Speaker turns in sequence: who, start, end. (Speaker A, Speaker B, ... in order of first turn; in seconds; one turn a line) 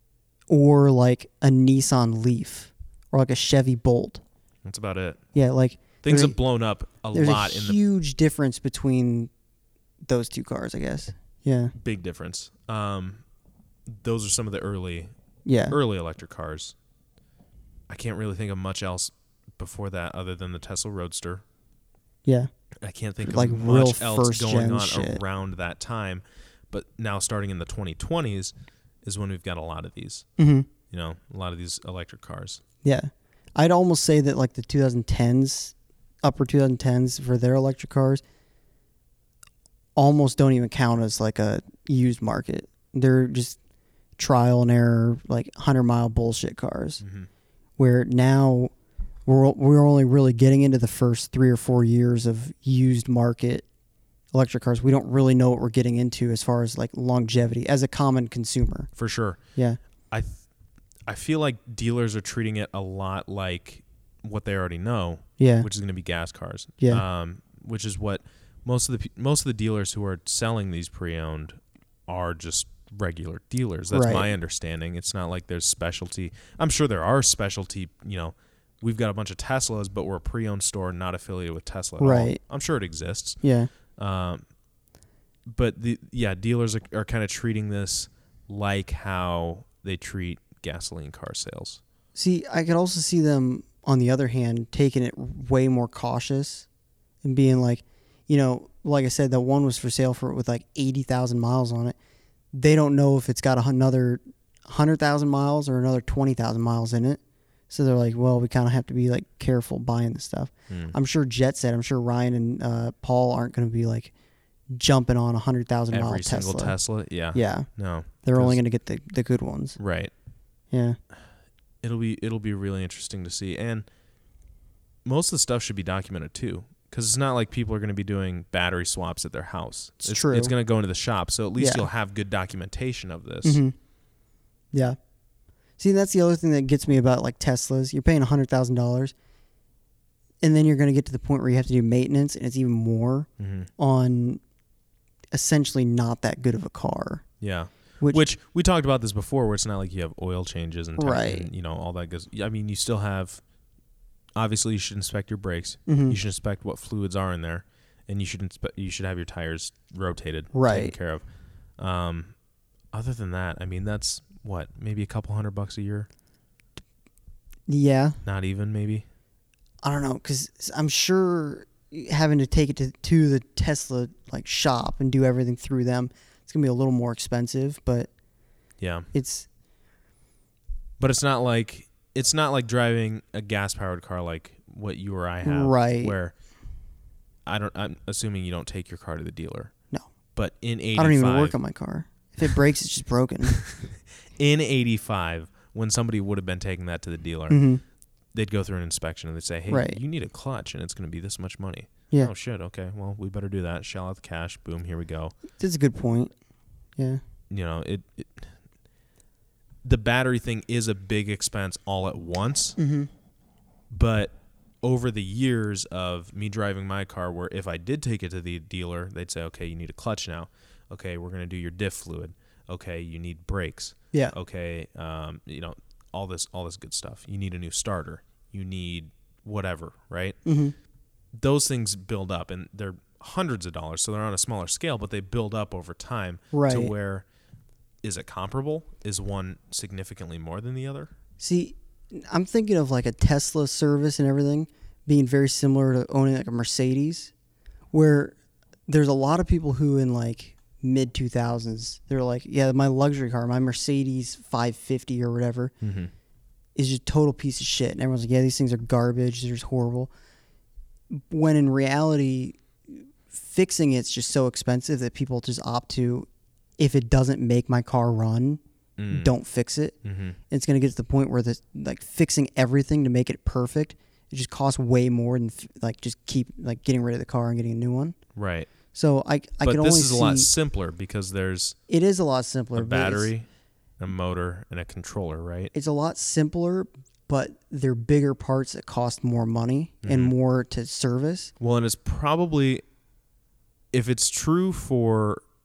Speaker A: 0.5-4.2
Speaker B: 4.6-5.2
Speaker A: 5.3-6.3
Speaker B: 6.0-7.8
Speaker A: 7.1-9.3
Speaker A: 10.0-11.7
Speaker B: 11.8-13.2
Speaker B: 13.9-15.1
Speaker A: 15.4-15.8
Speaker B: 15.7-16.8
Speaker B: 17.9-21.4
Speaker A: 22.2-22.5
Speaker B: 22.8-28.5
Speaker A: 23.2-25.2
Speaker B: 29.0-30.3
Speaker A: 30.4-30.7
Speaker B: 30.9-32.6
Speaker A: 32.8-38.2
Speaker A: 40.0-43.6
Speaker A: 44.2-47.0
Speaker B: 47.0-47.3
Speaker A: 47.8-48.7
Speaker A: 49.2-53.6
Speaker A: 54.3-58.9
Speaker B: 59.0-59.4
Speaker B: 60.1-60.4
Speaker B: 61.1-83.4
Speaker A: 65.4-65.7
Speaker A: 73.9-74.3
Speaker A: 82.0-82.4
Speaker A: 83.4-83.7
Speaker B: 84.0-84.4
Speaker B: 85.5-91.8
Speaker A: 92.1-96.7
Speaker A: 97.2-102.0
Speaker A: 102.5-114.1
Speaker B: 110.7-110.9
Speaker A: 114.7-116.7
Speaker B: 115.9-118.6
Speaker A: 117.3-117.7
Speaker A: 118.2-119.8
Speaker B: 119.8-120.1
Speaker A: 120.7-121.0
Speaker B: 121.8-123.8
Speaker B: 125.0-133.6
Speaker A: 130.0-130.5
Speaker A: 131.6-131.9
Speaker A: 133.4-133.7
Speaker A: 135.8-139.1
Speaker A: 140.4-144.4
Speaker B: 143.4-143.7
Speaker A: 145.3-147.3
Speaker B: 147.4-153.4
Speaker A: 151.0-151.5
Speaker B: 154.3-161.2
Speaker A: 155.9-156.2
Speaker A: 160.5-160.9
Speaker B: 161.8-162.3
Speaker B: 162.9-166.1
Speaker A: 167.7-168.2
Speaker B: 168.2-169.1
Speaker A: 169.8-178.1
Speaker B: 178.8-179.1
Speaker A: 179.1-179.5
Speaker B: 181.0-186.3
Speaker A: 185.4-186.1
Speaker B: 187.4-189.7
Speaker B: 190.3-191.6
Speaker A: 191.0-193.6
Speaker B: 193.5-197.6
Speaker A: 197.5-197.8
Speaker B: 198.3-205.4
Speaker A: 199.7-200.0
Speaker A: 205.6-206.3
Speaker B: 207.5-208.5
Speaker B: 209.8-212.8
Speaker A: 212.8-213.1
Speaker B: 213.9-230.4
Speaker A: 230.4-230.7
Speaker B: 231.3-237.2
Speaker A: 236.5-236.9
Speaker B: 238.0-241.1
Speaker A: 241.4-247.3
Speaker A: 247.9-248.3
Speaker A: 248.9-255.7
Speaker B: 255.8-256.1
Speaker A: 256.7-260.1
Speaker A: 261.1-266.3
Speaker A: 266.8-270.0
Speaker B: 269.0-269.3
Speaker B: 270.0-270.4
Speaker A: 270.5-278.1
Speaker B: 278.3-278.7
Speaker A: 278.9-280.5
Speaker B: 279.6-281.8
Speaker A: 281.9-283.3
Speaker B: 282.7-283.4
Speaker B: 284.0-285.7
Speaker A: 285.7-291.5
Speaker B: 290.0-290.3
Speaker B: 291.6-292.8
Speaker B: 293.9-295.4